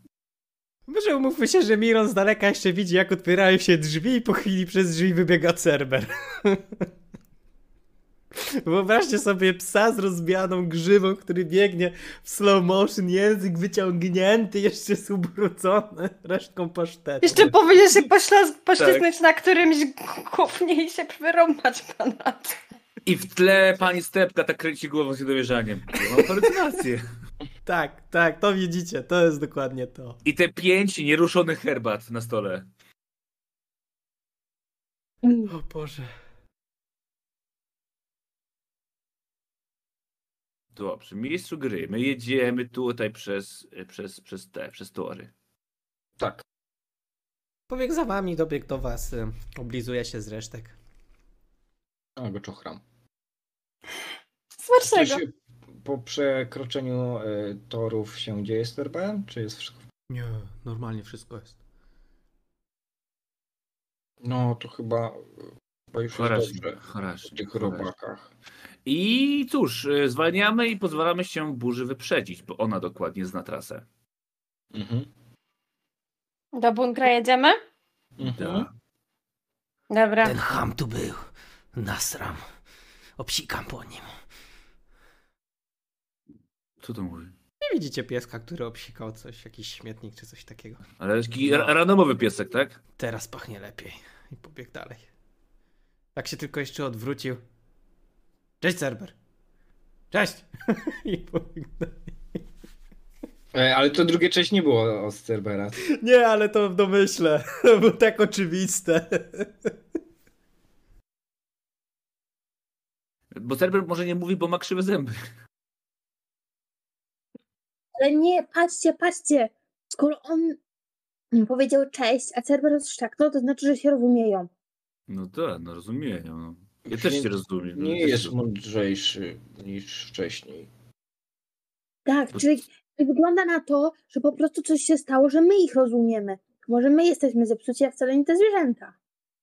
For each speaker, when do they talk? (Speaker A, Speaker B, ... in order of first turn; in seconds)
Speaker A: 0.9-6.9, 8.3-17.6, 27.6-30.2, 35.5-36.1, 47.7-50.8, 60.1-61.6, 80.2-81.2, 81.7-82.4, 83.2-84.1, 87.6-90.8, 93.0-95.0, 96.1-97.4, 98.6-99.1, 100.1-102.4, 105.8-109.7
Speaker B: 17.2-22.6, 54.6-55.2, 76.5-77.6, 79.9-80.4
Speaker C: 18.8-19.1, 23.1-27.1, 30.2-32.7, 40.7-45.3, 66.1-67.9, 68.9-73.9, 78.2-78.7, 86.8-87.3, 91.0-92.8, 113.3-115.2, 125.1-128.3
Speaker D: 35.2-35.5, 118.0-120.6, 121.3-124.5, 132.1-138.9
Speaker E: 46.2-46.4, 52.2-52.8, 54.8-55.3, 55.8-59.8, 64.2-65.3, 65.9-66.8, 67.3-68.3, 74.7-75.1, 78.2-78.7, 103.5-105.8, 126.9-130.7